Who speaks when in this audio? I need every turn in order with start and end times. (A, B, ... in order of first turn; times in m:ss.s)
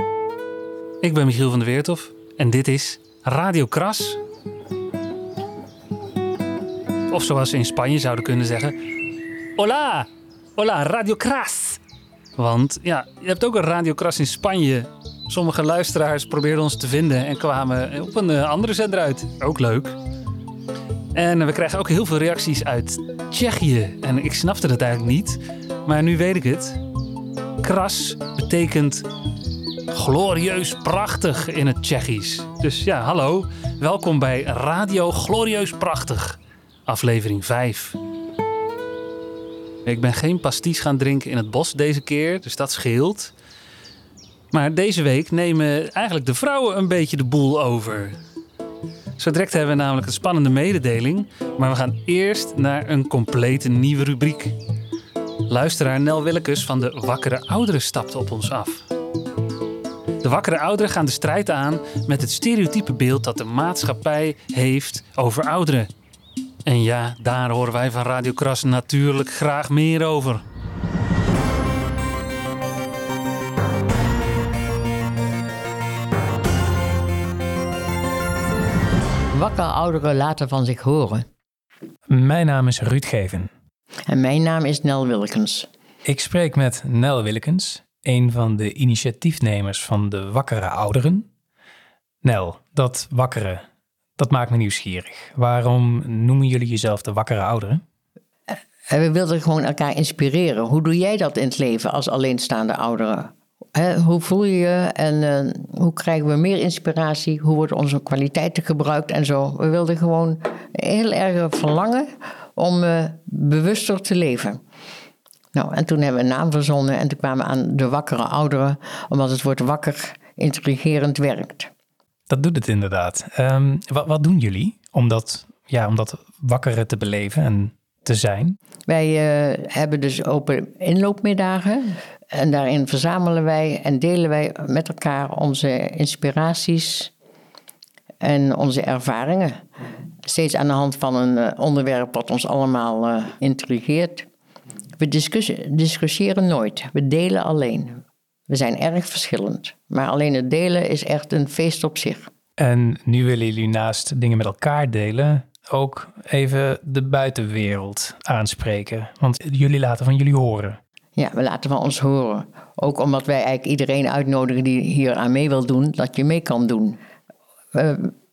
0:01.0-0:04.2 A
0:07.1-0:08.8 A
0:09.6-0:11.8 A
0:12.4-0:19.9 A
0:21.1-0:26.8 A
0:27.6-0:29.0 A
0:29.9-0:38.0 A
0:39.8-0:43.3 A
0:44.5-0:48.2 A
0:49.2-0:54.5 A
0:55.5-0:58.8 A
1:00.2-1:05.9 A
1:06.6-1:10.4 A
1:19.3-1:21.3 B
1:22.1-1:23.5 C
1:24.1-1:25.7 B
1:26.0-1:31.3 C
1:32.2-1:33.6 C
1:34.2-1:37.8 C
1:38.9-1:54.6 B
1:55.5-2:01.7 B
2:02.3-2:08.6 C
2:08.9-2:17.1 B
2:18.2-2:19.6 B
2:20.2-2:24.3 B
2:25.0-2:32.3 B
2:32.6-2:40.8 C
2:41.2-2:47.0 B
2:47.7-2:48.1 B